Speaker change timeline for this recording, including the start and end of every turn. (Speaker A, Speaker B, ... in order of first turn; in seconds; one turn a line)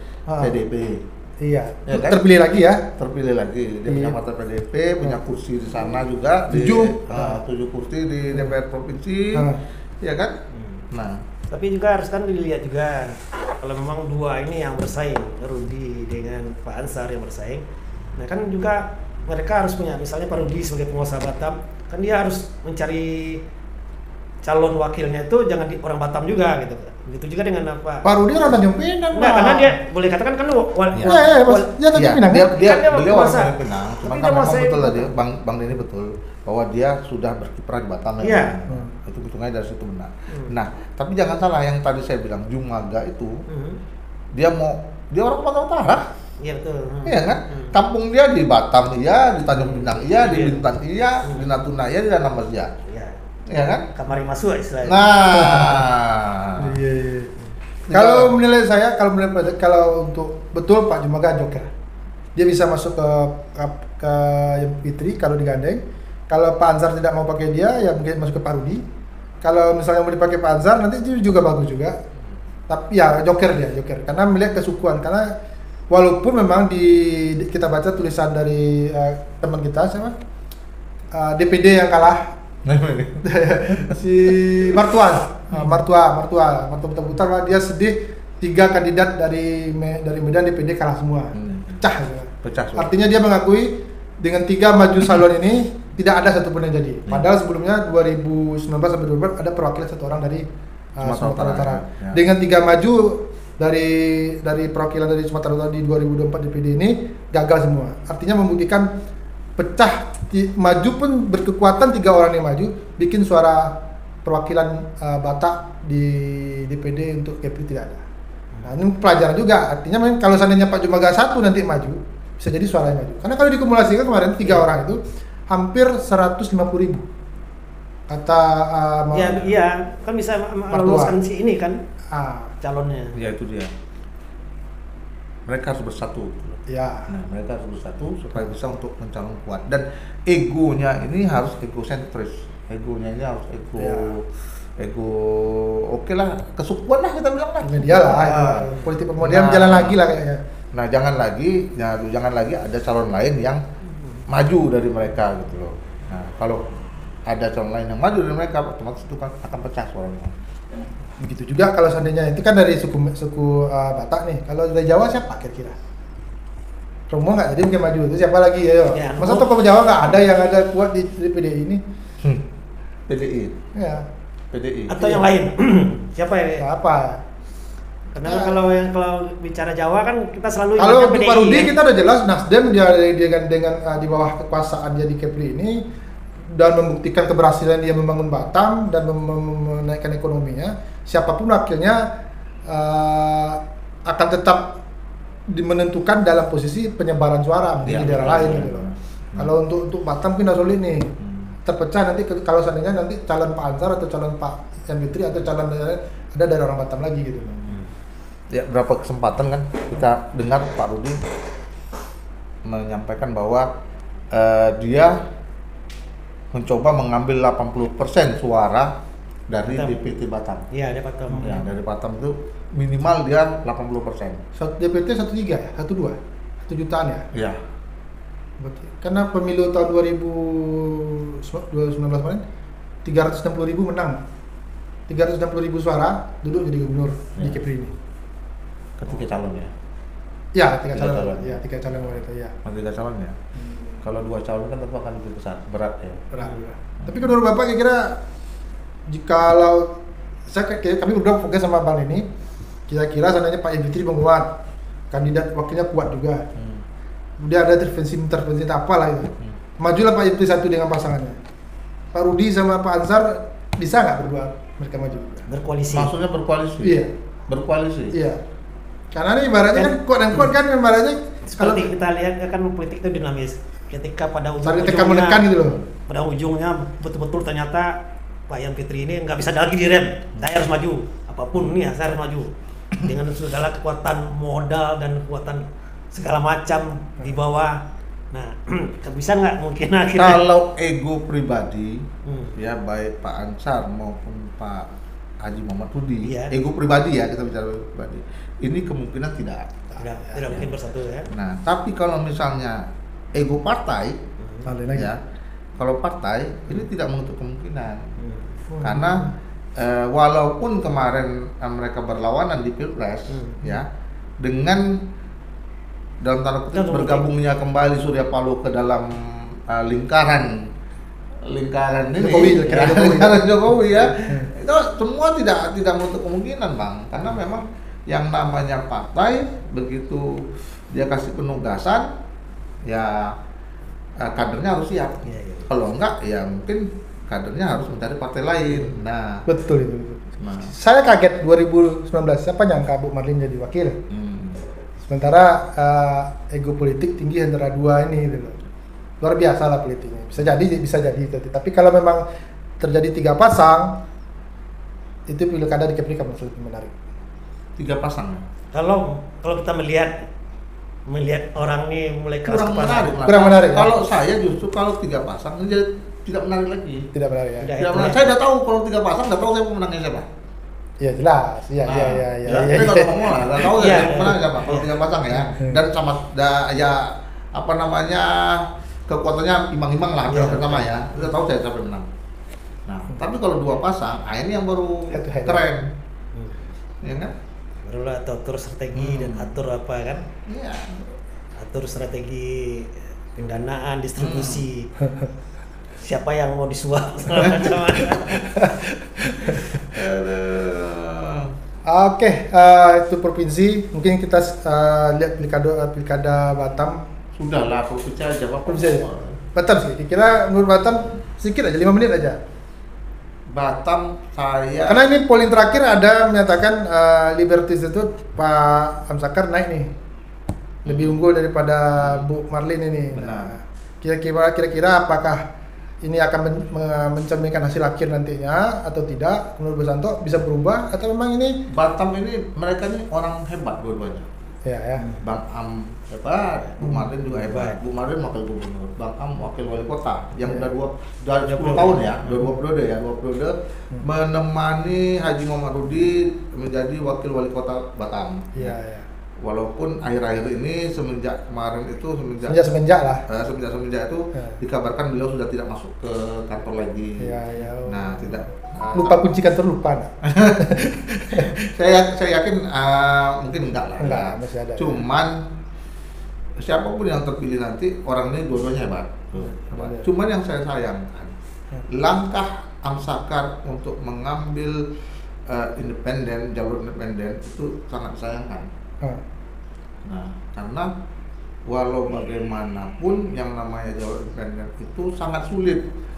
Speaker A: 0.3-0.6
Speaker B: 0.4-1.0
Speaker A: 1.4-2.8
Speaker B: 1.9-2.2
Speaker B: 3.0-9.5
Speaker A: 3.9-4.2
Speaker A: 6.5-7.4
Speaker B: 10.0-10.3
Speaker C: 10.5-10.8
Speaker B: 10.9-11.2
Speaker C: 11.5-17.6
Speaker C: 18.2-23.4
Speaker C: 24.4-28.1
Speaker A: 28.1-29.8
Speaker C: 29.1-31.7
Speaker B: 30.9-31.3
Speaker A: 31.0-33.4
Speaker B: 31.9-43.4
Speaker C: 32.5-33.5
Speaker C: 34.0-35.1
Speaker C: 38.2-38.5
Speaker C: 43.5-43.8
Speaker B: 44.3-46.0
Speaker C: 46.4-47.8
Speaker B: 47.0-52.8
Speaker C: 49.6-50.6
Speaker C: 51.2-51.5
Speaker C: 52.9-53.2
Speaker B: 53.5-53.9
Speaker C: 53.9-55.1
Speaker B: 54.8-56.8
Speaker A: 55.3-55.9
Speaker A: 56.6-57.3
Speaker B: 57.9-58.4
Speaker A: 57.9-61.7
Speaker A: 62.4-68.8
Speaker A: 69.4-72.0
Speaker A: 72.7-75.3
Speaker A: 75.9-80.2
Speaker A: 81.1-82.3
Speaker B: 82.7-84.0
Speaker A: 83.2-100.5
Speaker B: 91.3-91.8
Speaker B: 92.4-92.9
Speaker A: 101.0-108.9
Speaker B: 101.0-102.2
Speaker A: 109.6-118.0
Speaker A: 118.7-127.0
Speaker A: 128.1-129.4
Speaker C: 129.1-131.8
Speaker A: 130.7-131.2
Speaker A: 132.1-132.5
Speaker C: 132.6-133.2
Speaker B: 133.1-133.7
Speaker B: 135.5-144.3
Speaker A: 136.7-137.1
Speaker A: 143.8-144.1
Speaker B: 144.8-148.7
Speaker A: 147.6-150.4
Speaker C: 148.4-148.9
Speaker B: 149.2-150.0
Speaker B: 150.7-153.6
Speaker B: 154.3-156.6
Speaker B: 157.3-160.3
Speaker A: 161.2-165.8
Speaker A: 167.1-171.8
Speaker C: 168.9-169.6
Speaker B: 173.1-173.6
Speaker A: 173.8-174.1
Speaker B: 174.5-175.2
Speaker C: 174.9-176.6
Speaker A: 176.6-177.2
Speaker C: 178.2-181.7
Speaker A: 178.2-178.6
Speaker A: 180.8-185.8
Speaker A: 186.5-192.1
Speaker A: 192.7-194.8
Speaker A: 195.5-201.1
Speaker B: 197.8-199.5
Speaker B: 201.2-201.6
Speaker A: 201.7-207.5
Speaker B: 207.5-207.8
Speaker B: 208.5-211.2
Speaker B: 212.7-213.7
Speaker B: 214.3-215.2
Speaker B: 216.5-219.0
Speaker B: 219.5-220.7
Speaker C: 219.6-220.0
Speaker C: 220.7-221.6
Speaker A: 221.3-221.6
Speaker B: 221.4-224.4
Speaker A: 224.6-227.3
Speaker B: 227.3-227.6
Speaker A: 228.6-232.4
Speaker A: 233.1-234.2
Speaker A: 235.1-237.9
Speaker B: 239.0-239.7
Speaker A: 240.6-242.5
Speaker B: 240.9-243.4
Speaker B: 244.0-246.3
Speaker A: 246.3-248.2
Speaker B: 247.0-247.3
Speaker A: 249.1-249.9
Speaker A: 250.5-252.2
Speaker A: 252.9-254.5
Speaker A: 255.1-256.4
Speaker B: 256.6-256.8
Speaker A: 257.4-261.4
Speaker A: 262.1-265.5
Speaker C: 265.5-266.1
Speaker B: 265.9-268.2
Speaker A: 266.8-267.1
Speaker A: 268.1-268.4
Speaker A: 269.1-271.9
Speaker C: 271.5-275.5
Speaker A: 274.6-275.8
Speaker C: 276.1-278.0
Speaker C: 278.5-282.5
Speaker C: 283.0-287.8
Speaker C: 288.3-290.4
Speaker B: 290.2-294.9
Speaker C: 292.2-292.6
Speaker B: 295.4-299.7
Speaker C: 296.2-296.5
Speaker A: 299.9-300.6
Speaker C: 300.0-301.3
Speaker B: 301.3-304.2
Speaker A: 304.6-305.1
Speaker B: 304.9-305.2
Speaker B: 305.8-308.1
Speaker C: 308.2-308.6
Speaker A: 308.7-309.3
Speaker B: 308.8-309.2
Speaker B: 309.8-313.9
Speaker C: 313.3-313.8
Speaker B: 314.4-315.0
Speaker B: 316.2-320.7
Speaker C: 316.7-317.3
Speaker B: 321.4-332.1
Speaker A: 322.2-323.5
Speaker B: 332.9-333.3
Speaker B: 334.2-339.4
Speaker C: 335.3-335.7
Speaker A: 339.5-344.0
Speaker B: 340.4-340.7
Speaker B: 344.1-344.6
Speaker A: 345.1-348.6
Speaker A: 349.2-352.2
Speaker A: 352.8-354.0
Speaker A: 355.3-356.9
Speaker B: 357.8-358.4
Speaker C: 358.7-360.3
Speaker C: 361.1-363.2
Speaker B: 362.5-367.1
Speaker A: 363.2-364.0
Speaker A: 367.1-367.7
Speaker C: 367.6-368.3
Speaker B: 367.8-370.3
Speaker A: 371.0-373.2
Speaker B: 371.9-382.1
Speaker C: 372.5-372.9
Speaker C: 373.6-374.9
Speaker A: 375.5-375.8
Speaker C: 380.3-380.9
Speaker B: 382.9-385.9
Speaker A: 385.1-385.7
Speaker C: 386.3-386.6
Speaker B: 387.0-387.3
Speaker C: 387.9-390.3
Speaker B: 388.9-389.6
Speaker B: 390.4-391.1
Speaker C: 391.6-394.9
Speaker B: 394.2-394.6
Speaker C: 396.0-398.4
Speaker A: 398.3-399.8
Speaker B: 399.2-401.5
Speaker A: 401.9-407.0
Speaker B: 407.4-409.4
Speaker A: 408.7-412.4
Speaker B: 413.5-415.0
Speaker A: 414.9-419.9
Speaker B: 420.9-421.2
Speaker A: 420.9-425.4
Speaker B: 422.0-422.3
Speaker B: 423.1-423.5
Speaker A: 426.0-431.6
Speaker B: 431.7-434.3
Speaker A: 434.6-435.1
Speaker C: 435.0-435.2
Speaker B: 435.2-448.8
Speaker A: 436.8-437.1
Speaker C: 437.4-437.8
Speaker C: 441.5-442.3
Speaker A: 448.6-449.1
Speaker B: 449.4-452.6
Speaker A: 452.5-453.2
Speaker B: 453.3-459.3
Speaker A: 457.2-458.4
Speaker A: 458.9-461.6
Speaker B: 460.2-465.4
Speaker A: 464.0-465.1
Speaker B: 466.6-471.4
Speaker A: 469.4-470.1
Speaker B: 471.9-474.8
Speaker B: 475.5-478.7
Speaker B: 480.1-480.9
Speaker B: 481.7-485.9